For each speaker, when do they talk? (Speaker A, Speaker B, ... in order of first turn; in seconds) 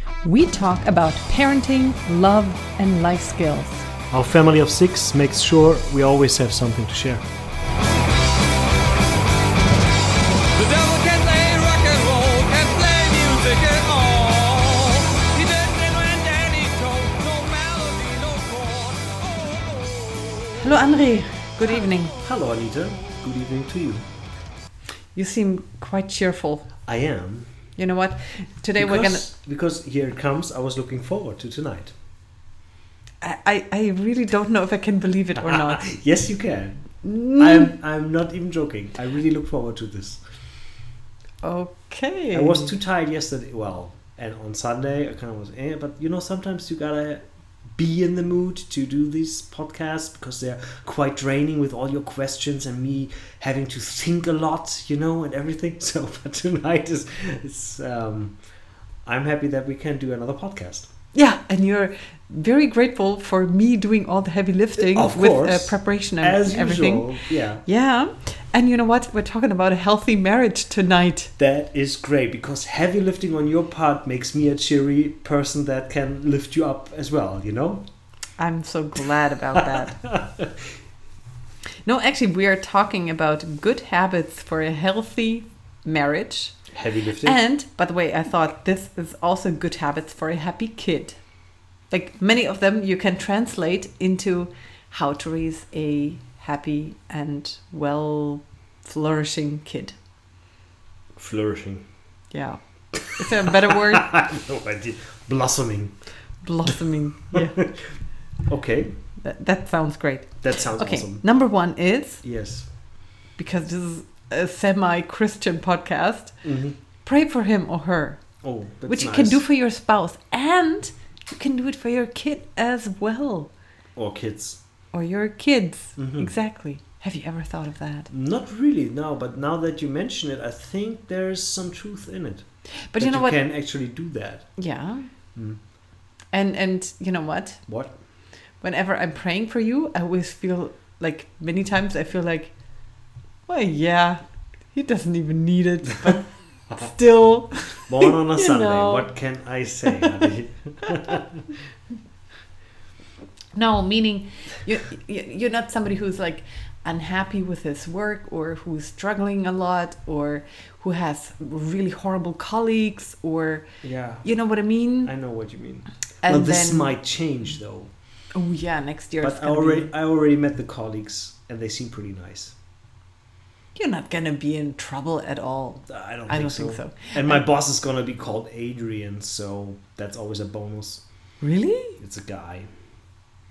Speaker A: 0.2-3.9, 20.6-22.1, 25.1-26.7, 27.8-29.2, 33.2-35.9, 37.0-37.8, 41.4-42.7, 61.1-71.3, 78.4-80.0, 81.8-86.6, 87.2-91.2, 91.9-100.0, 102.3-104.1, 106.4-107.6, 109.2-112.2, 113.4-116.4, 117.0-118.2, 118.9-123.5, 124.9-128.1, 132.9-133.4, 134.6-135.1, 136.3-137.6, 138.6-142.5, 143.5-144.2, 144.7-149.1, 149.9-150.2, 150.8-151.2, 153.5-163.7, 164.2-165.1, 166.2-166.9, 168.3-169.9, 173.8-177.4, 181.4-182.0
Speaker B: 4.1-7.2, 22.2-24.1, 26.9-27.6, 28.8-31.9, 35.4-36.9, 37.4-40.2, 42.3-58.4, 59.0-60.9, 64.8-67.6, 71.4-77.8, 79.6-80.7, 86.7-87.4, 101.2-101.8, 103.2-106.0, 107.3-109.0, 110.4-111.2, 112.2-112.7, 116.4-116.8, 118.4-119.4, 124.0-124.6, 126.0-126.3, 128.1-132.5, 133.0-134.5, 135.3-135.6, 137.7-137.9, 147.9-151.6, 163.8-164.3, 165.0-167.9, 169.2-172.6, 175.9-181.0, 182.0-182.7
Speaker C: 10.6-20.1